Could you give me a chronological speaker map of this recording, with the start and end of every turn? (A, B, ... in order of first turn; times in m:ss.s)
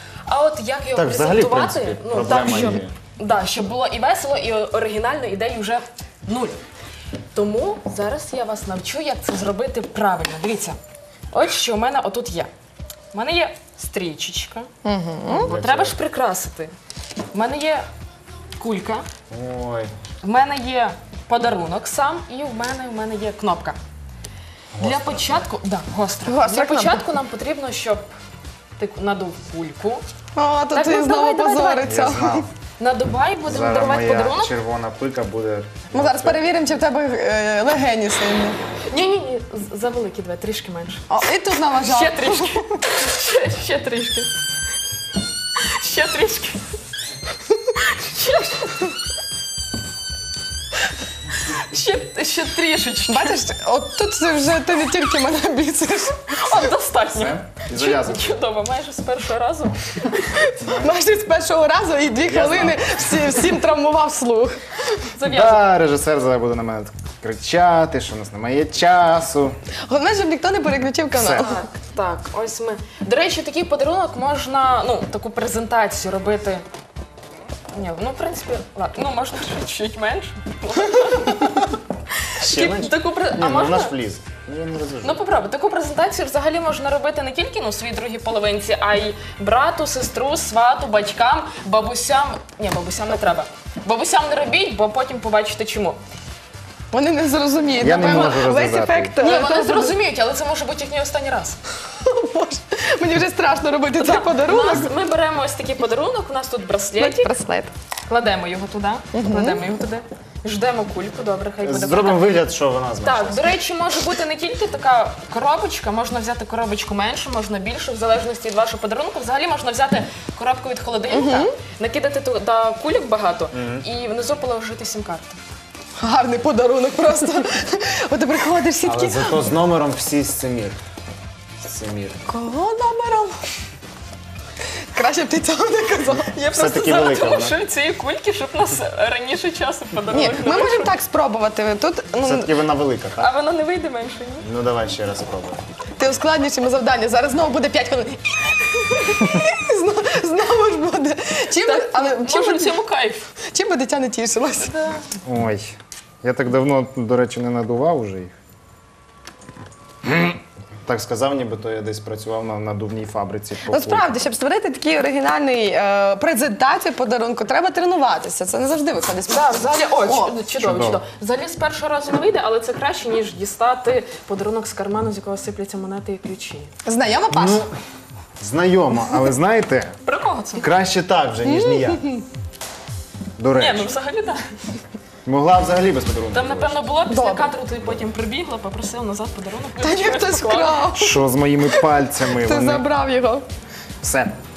0:00.3-0:06.6 A
0:00.9-0:02.9 B
0:07.3-0:10.8 A
0:11.3-0:12.5 A
0:13.1-0:14.7 A
0:14.8-0:15.5 C
0:15.3-0:16.7 A
0:15.4-0:16.0 B
0:17.3-0:17.8 A
0:18.6-0:19.0 A
0:19.3-0:19.9 B
0:20.2-0:23.8 A
0:24.7-0:25.4 B
0:24.8-0:28.1 A
0:26.2-0:27.0 C
0:28.8-0:30.0 A
0:30.3-0:32.5 C
0:30.7-0:31.9 A
0:31.8-0:32.5 B
0:32.8-0:34.5 A
0:33.4-0:36.4 B
0:35.9-0:38.6 C
0:38.9-0:41.0 A
0:41.1-0:42.7 C
0:41.8-0:44.3 A
0:45.5-0:46.7 A
0:47.7-0:48.9 A
0:51.4-0:53.4 A
0:53.1-0:56.4 C
0:56.3-1:00.2 A
0:57.1-0:58.3 B
1:00.6-1:00.9 B
1:00.6-1:04.6 C
1:02.2-1:03.0 B
1:05.1-1:05.6 A
1:05.2-1:09.5 B
1:09.9-1:11.5 C
1:11.1-1:11.5 B
1:11.4-1:16.6 A
1:17.7-1:23.9 A
1:22.4-1:25.2 B
1:25.0-1:36.0 A
1:36.9-1:40.0 C
1:37.8-1:39.2 B
1:39.2-1:41.6 A
1:42.0-1:44.9 C
1:44.0-1:47.3 A
1:46.9-1:47.7 C
1:48.1-1:52.4 A
1:49.1-1:49.6 C
1:51.6-1:53.4 B
1:53.0-2:05.4 A
2:01.1-2:01.5 C
2:03.5-2:03.8 B
2:06.0-2:09.4 C
2:08.8-2:10.8 B
2:11.6-2:12.2 B
2:12.3-2:13.4 C
2:14.9-2:16.3 C
2:16.2-2:20.9 A
2:16.5-2:17.6 B
2:20.1-2:22.6 C
2:22.2-2:23.3 B
2:23.2-2:24.5 A
2:24.4-2:25.6 B
2:26.0-2:32.8 C
2:31.6-2:33.3 A
2:33.4-2:34.7 C
2:34.6-2:35.1 A
2:35.2-2:38.3 B
2:40.0-2:40.3 B
2:40.8-2:44.2 B
2:43.7-2:50.4 C
2:49.3-2:56.7 A
2:50.6-2:51.0 B
2:56.8-2:57.7 C
2:57.3-2:57.7 B
2:58.4-2:59.9 B
3:00.0-3:00.7 A
3:00.6-3:02.0 B
3:01.4-3:02.2 C
3:03.4-3:03.9 B
3:03.5-3:04.5 A
3:05.2-3:06.9 B
3:06.3-3:10.9 A
3:07.1-3:07.5 C
3:09.8-3:13.4 C
3:10.9-3:12.8 B
3:14.0-3:14.3 B